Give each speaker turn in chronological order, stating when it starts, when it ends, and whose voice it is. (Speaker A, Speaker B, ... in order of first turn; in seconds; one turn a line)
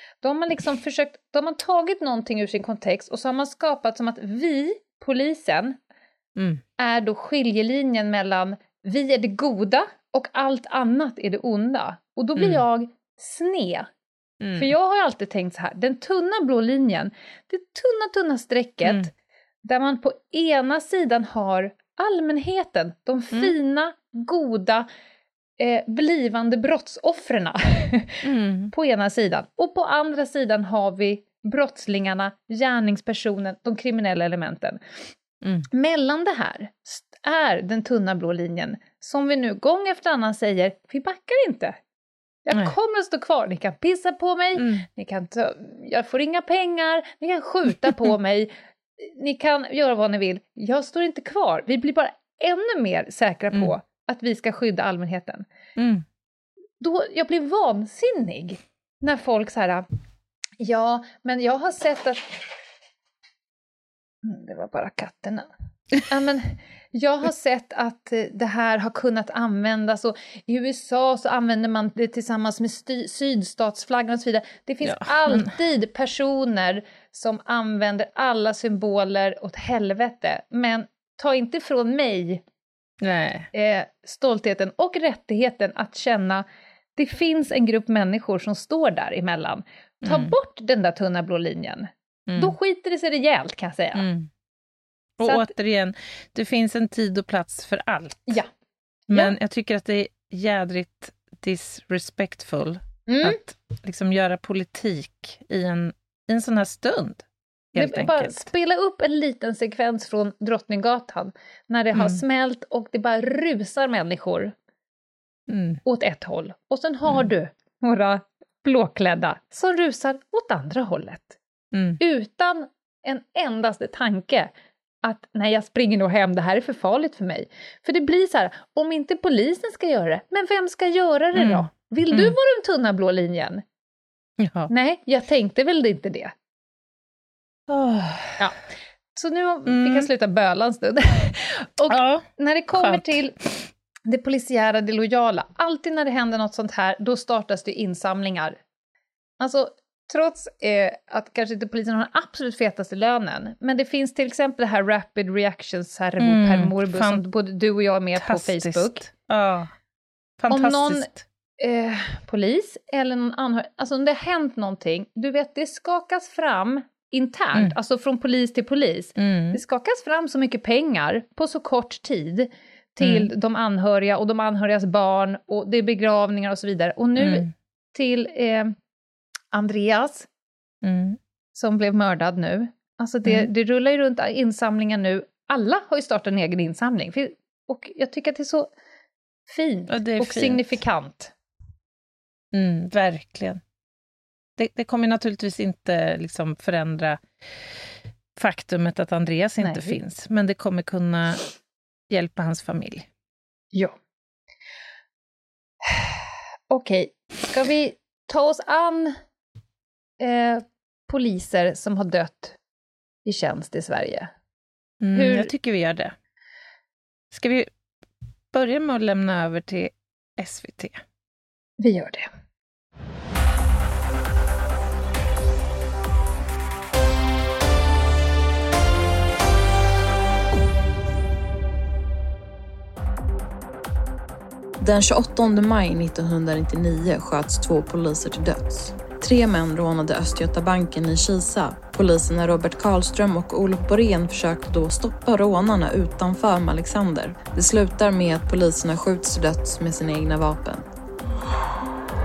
Speaker A: 0.2-5.8
Speaker B: 6.4-6.6
Speaker A: 6.8-13.9
Speaker B: 14.4-14.7
Speaker A: 14.6-19.1
Speaker A: 19.6-24.9
Speaker A: 25.6-34.8
Speaker B: 28.2-28.7
Speaker A: 35.7-41.8
Speaker A: 42.5-55.5
Speaker B: 44.5-44.9
Speaker B: 55.8-56.0
Speaker A: 56.8-59.9
Speaker A: 60.6-62.4
Speaker A: 64.2-65.5
Speaker A: 66.1-82.4
Speaker B: 74.8-75.5
Speaker B: 83.0-83.5
Speaker A: 83.5-86.5
Speaker A: 87.0-94.0
Speaker B: 90.0-90.3
Speaker B: 92.3-92.5
Speaker B: 94.0-94.3
Speaker B: 95.2-98.4
Speaker A: 95.2-95.5
Speaker B: 99.1-107.2
Speaker A: 99.1-99.3
Speaker A: 103.1-103.4
Speaker B: 107.7-108.5
Speaker A: 107.8-114.5
Speaker B: 115.5-115.8
Speaker A: 115.8-121.4
Speaker B: 121.7-122.0
Speaker A: 122.0-124.5
Speaker A: 125.0-133.6
Speaker B: 131.3-132.3
Speaker B: 134.4-134.7
Speaker A: 134.7-136.3
Speaker B: 137.7-138.4
Speaker A: 139.2-143.3
Speaker B: 139.7-140.1
Speaker B: 141.9-143.2
Speaker A: 144.1-148.6
Speaker A: 149.4-159.0
Speaker B: 156.2-157.2
Speaker B: 158.2-159.7
Speaker B: 160.4-161.2
Speaker A: 160.5-161.1
Speaker A: 161.6-178.8
Speaker B: 169.2-169.6
Speaker B: 173.0-173.3
Speaker B: 177.2-177.5
Speaker A: 179.5-180.3
Speaker B: 180.8-181.2
Speaker A: 181.5-188.7
Speaker A: 189.5-191.3
Speaker B: 189.9-190.8
Speaker B: 192.5-193.6
Speaker B: 194.6-197.2
Speaker B: 198.3-201.4
Speaker A: 199.6-200.0
Speaker B: 202.1-203.1
Speaker A: 205.8-206.2
Speaker A: 206.7-209.2
Speaker A: 210.2-212.6
Speaker A: 213.2-214.3
Speaker B: 215.0-216.1
Speaker A: 215.1-215.5
Speaker B: 217.3-217.7
Speaker B: 218.5-221.0
Speaker A: 221.8-222.3
Speaker C: 234.8-250.8